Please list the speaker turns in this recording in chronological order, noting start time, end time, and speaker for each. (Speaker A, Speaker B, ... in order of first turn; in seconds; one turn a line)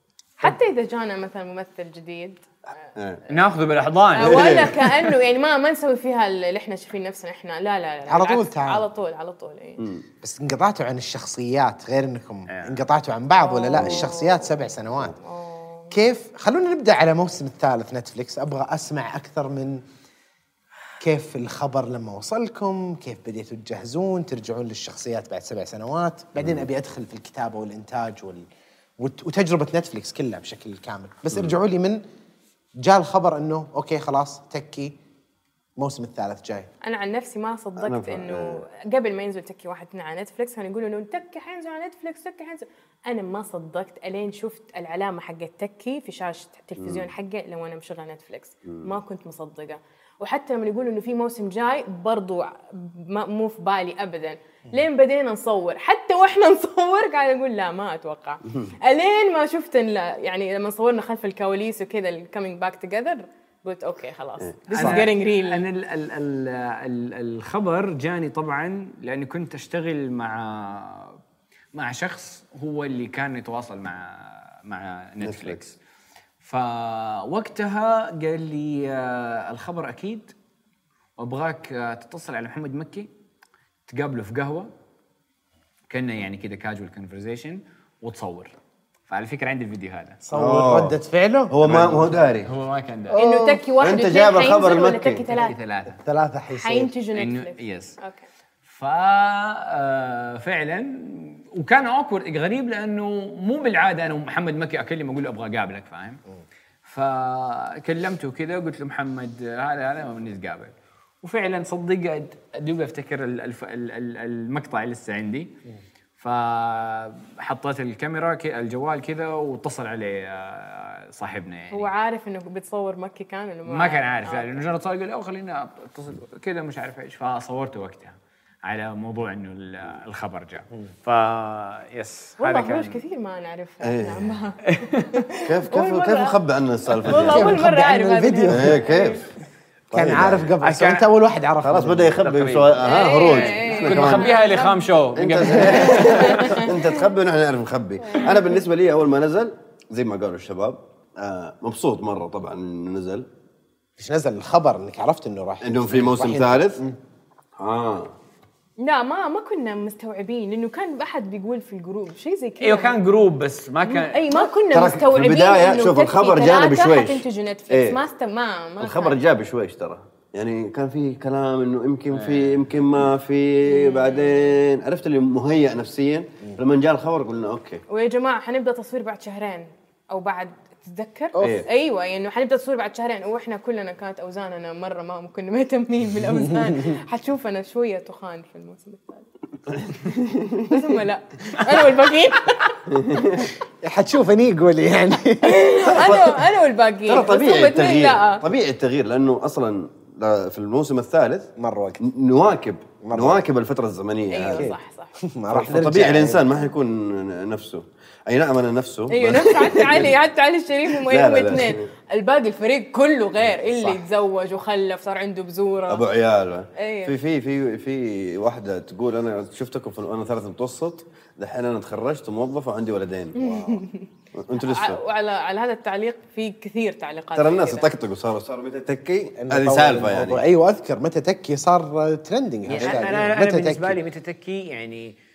Speaker A: 0.4-2.9
Speaker B: 2.9-3.2
Speaker C: 3.3-4.7
Speaker A: 4.1-9.8
Speaker B: 4.2-5.1
Speaker D: 8.1-8.8
Speaker B: 9.8-10.0
Speaker D: 10.2-15.2
Speaker C: 12.5-12.8
Speaker A: 13.4-15.9
Speaker B: 13.7-14.1
Speaker D: 15.9-19.8
Speaker D: 21.0-28.4
Speaker B: 26.4-26.6
Speaker D: 29.0-32.0
Speaker D: 32.8-35.0
Speaker D: 35.8-36.7
Speaker A: 36.8-65.6
Speaker B: 37.8-38.6
Speaker B: 46.8-47.0
Speaker B: 48.6-48.9
Speaker B: 64.4-65.1
Speaker C: 64.8-71.2
Speaker C: 71.7-75.8
Speaker B: 75.2-75.6
Speaker C: 76.4-80.3
Speaker C: 81.2-83.1
Speaker C: 83.9-84.7
Speaker C: 85.9-88.5
Speaker C: 89.1-90.2
Speaker D: 90.2-91.5
Speaker B: 90.3-91.0
Speaker B: 91.5-92.5
Speaker C: 91.6-93.2
Speaker D: 93.1-93.7
Speaker A: 93.2-95.5
Speaker B: 93.8-95.3
Speaker C: 95.3-96.0
Speaker D: 95.9-96.9
Speaker A: 96.5-98.2
Speaker C: 97.1-98.0
Speaker C: 98.7-106.2
Speaker C: 106.8-115.6
Speaker C: 116.2-121.9
Speaker A: 121.7-124.6
Speaker C: 123.7-133.0
Speaker A: 132.4-136.4
Speaker B: 133.8-134.3
Speaker C: 134.7-135.2
Speaker B: 135.4-137.5
Speaker A: 137.0-139.2
Speaker D: 137.1-138.8
Speaker B: 138.5-139.3
Speaker B: 139.9-140.5
Speaker D: 139.9-142.2
Speaker C: 140.6-141.1
Speaker B: 141.6-144.3
Speaker C: 142.2-146.7
Speaker A: 142.8-144.9
Speaker B: 145.2-153.3
Speaker A: 145.5-147.1
Speaker A: 148.0-148.6
Speaker D: 154.0-157.0
Speaker B: 155.6-156.8
Speaker B: 157.6-158.1
Speaker A: 158.8-163.0
Speaker C: 162.6-164.5
Speaker A: 163.8-169.2
Speaker B: 164.7-168.0
Speaker B: 168.8-177.8
Speaker C: 172.1-172.8
Speaker A: 173.7-174.6
Speaker A: 177.9-189.2
Speaker D: 181.3-181.6
Speaker B: 181.4-181.7
Speaker B: 189.7-190.8
Speaker A: 190.7-192.9
Speaker B: 192.9-193.5
Speaker D: 193.8-195.8
Speaker A: 195.4-198.4
Speaker B: 195.8-196.4
Speaker B: 197.1-204.7
Speaker D: 201.6-202.0
Speaker D: 203.0-203.4
Speaker A: 204.3-205.1
Speaker D: 204.6-206.4
Speaker B: 205.5-210.2
Speaker A: 209.1-216.0
Speaker B: 210.9-211.9
Speaker B: 215.9-225.0
Speaker A: 216.8-217.1
Speaker A: 223.3-227.9
Speaker B: 227.3-230.4
Speaker D: 229.4-234.0
Speaker C: 232.7-235.1
Speaker B: 232.8-233.2